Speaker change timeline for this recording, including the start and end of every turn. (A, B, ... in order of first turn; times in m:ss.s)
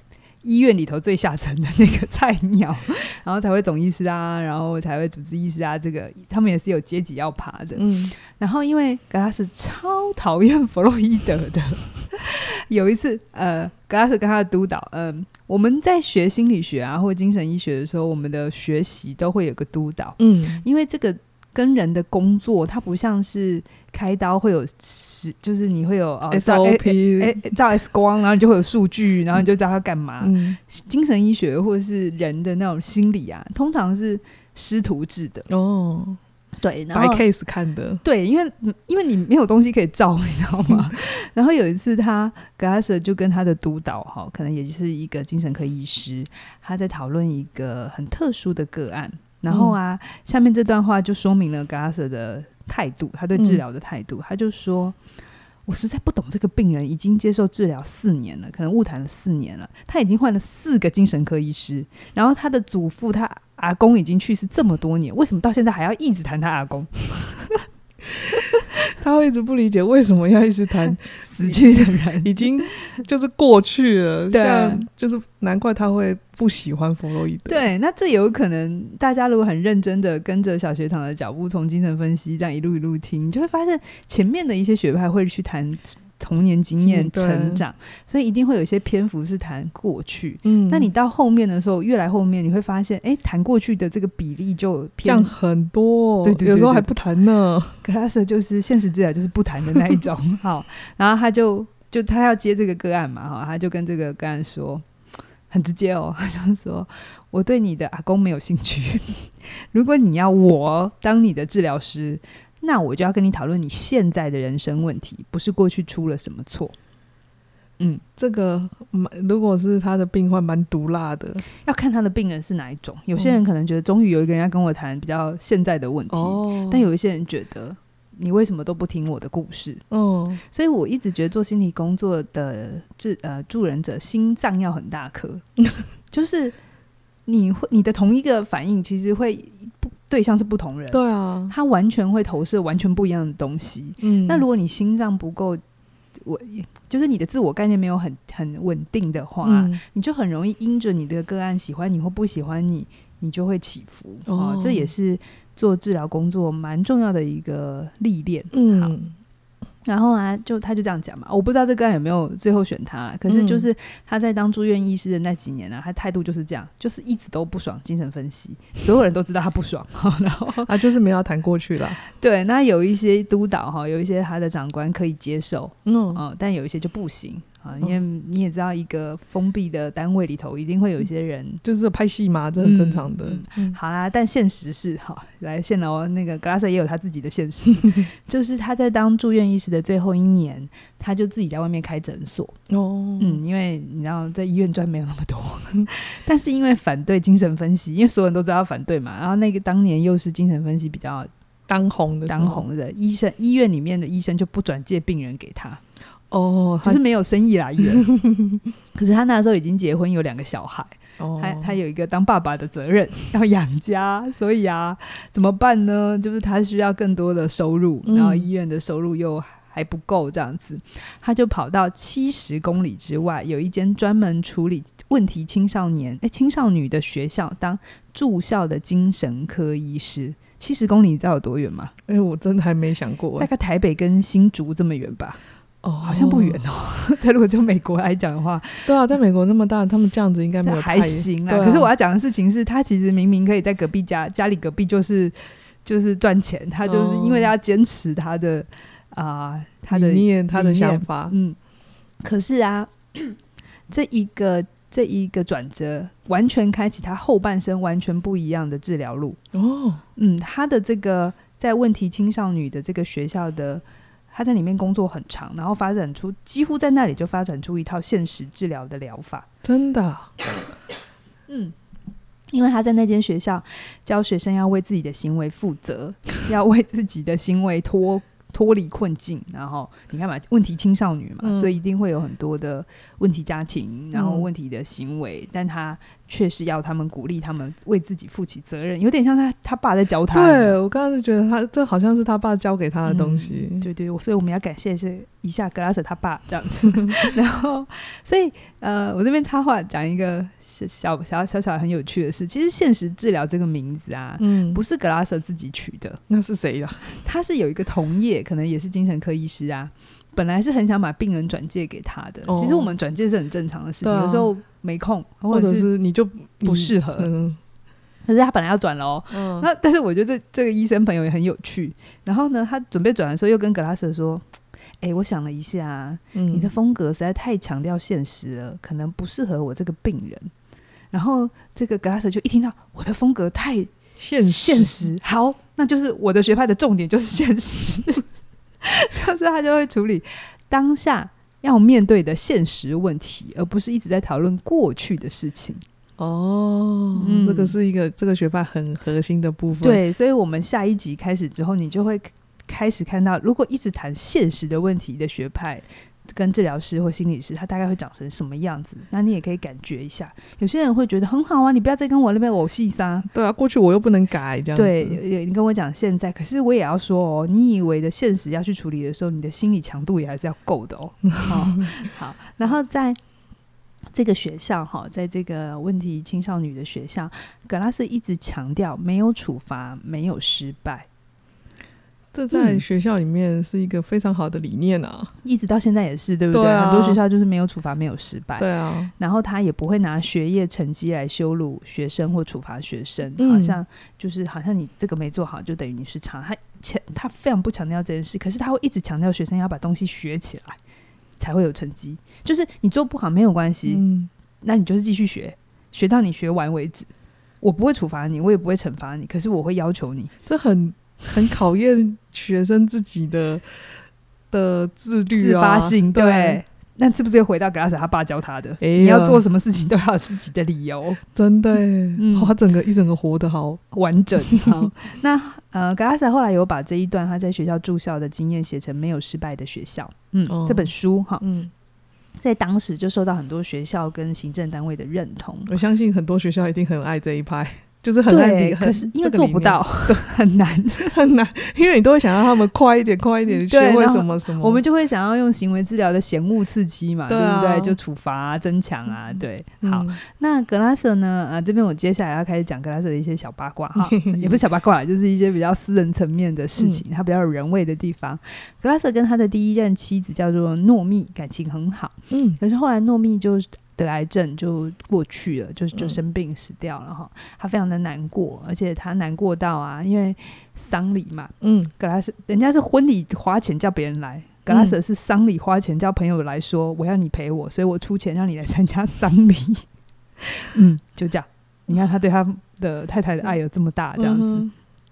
0:00.4-0:35.5 A
0:07.8-0:08.2 B
0:20.2-0:20.6 B
0:26.3-0:27.5 B
0:30.2-0:30.6 B
0:35.5-0:36.2 B
0:36.6-0:37.2 A
0:36.9-0:38.0 B
0:38.0-0:55.0 A
0:49.5-0:49.8 B
0:53.4-0:53.6 B
0:55.7-1:07.6 A
1:08.9-1:17.7 B
1:11.2-1:12.7 A
1:14.3-1:14.8 A
1:17.5-1:35.3 A
1:26.8-1:27.6 B
1:30.4-1:30.9 B
1:35.0-1:37.8 B
1:36.2-1:36.9 A
1:37.8-1:44.8 A
1:45.5-1:56.7 A
1:58.2-2:01.4 B
2:01.6-2:09.8 A
2:06.1-2:06.8 B
2:09.9-2:10.4 B
2:10.4-2:15.4 A
2:16.1-2:16.6 A
2:17.3-2:25.6 A
2:20.9-2:21.5 B
2:24.0-2:24.4 B
2:26.2-2:38.9 A
2:29.4-2:29.8 B
2:34.3-2:34.9 B
2:38.5-2:39.2 B
2:39.9-2:50.7 A
2:43.3-2:43.7 B
2:50.7-2:52.0 B
2:52.0-3:01.6 A
2:55.9-2:56.2 B
3:01.6-3:03.8 B
3:02.6-3:12.6 A
3:12.7-3:13.4 B
3:13.2-3:21.3 A
3:21.7-3:22.6 B
3:22.3-3:25.8 A
3:26.3-3:27.0 B
3:26.8-3:28.1 A
3:28.0-3:28.6 B
3:29.0-3:51.9 A
3:31.2-3:31.7 B
3:38.1-3:38.4 B
3:52.1-3:53.5 B
3:53.4-3:55.4 A
3:55.8-3:56.6 B
3:56.0-3:58.9 A
3:58.9-4:01.9 B
4:00.6-4:11.6 A
4:06.8-4:07.5 B
4:09.9-4:11.4 B
4:12.2-4:13.4 A
4:13.9-4:19.4 A
4:19.5-4:20.0 B
4:20.2-4:29.5 A
4:29.6-4:30.3 B
4:31.5-4:31.8 A
4:32.5-4:50.8 A
4:41.4-4:41.8 B
4:44.1-4:44.5 B
4:50.3-4:53.9 B
4:53.1-5:06.2 A
5:04.4-5:04.8 B
5:06.3-5:07.1 B
5:07.2-5:15.9 A
5:12.5-5:12.9 B
5:14.0-5:14.5 B
5:15.5-5:17.6 B
5:16.6-5:17.3 A
5:18.3-5:24.4 A
5:19.3-5:19.7 B
5:25.0-5:30.5 A
5:26.3-5:26.7 B
5:31.1-5:38.2 A
5:34.2-5:35.1 B
5:38.8-5:45.8 A
5:46.2-5:50.0 B
5:47.2-5:47.8 A
5:49.8-6:03.3 A
6:03.3-6:05.2 B
6:04.8-6:13.2 A
6:11.4-6:11.8 B
6:14.1-6:21.1 A
6:22.3-6:25.3 B
6:22.5-6:22.8 A
6:25.4-6:40.8 A
6:26.5-6:27.2 B
6:28.6-6:29.1 B
6:33.4-6:33.8 B
6:41.4-6:44.0 A
6:43.9-6:44.3 B
6:44.6-6:47.1 A
6:47.6-6:50.3 A
6:50.5-6:54.0 B
6:54.5-6:56.6 B
6:55.4-7:01.2 A
6:58.8-6:59.4 B
7:01.4-7:03.8 B
7:02.2-7:02.5 A
7:03.9-7:11.4 A
7:04.5-7:04.8 B
7:10.5-7:11.7 B
7:12.4-7:15.7 A
7:15.7-7:20.2 B
7:18.3-7:21.1 A
7:21.1-7:24.8 B
7:23.5-7:59.8 A
7:27.3-7:28.0 B
7:29.8-7:30.2 B
7:34.0-7:34.6 B
7:36.8-7:37.0 B
7:42.3-7:42.6 B
7:51.6-7:51.9 B
7:54.7-7:55.0 B
8:00.5-8:04.7 A
8:04.2-8:04.7 B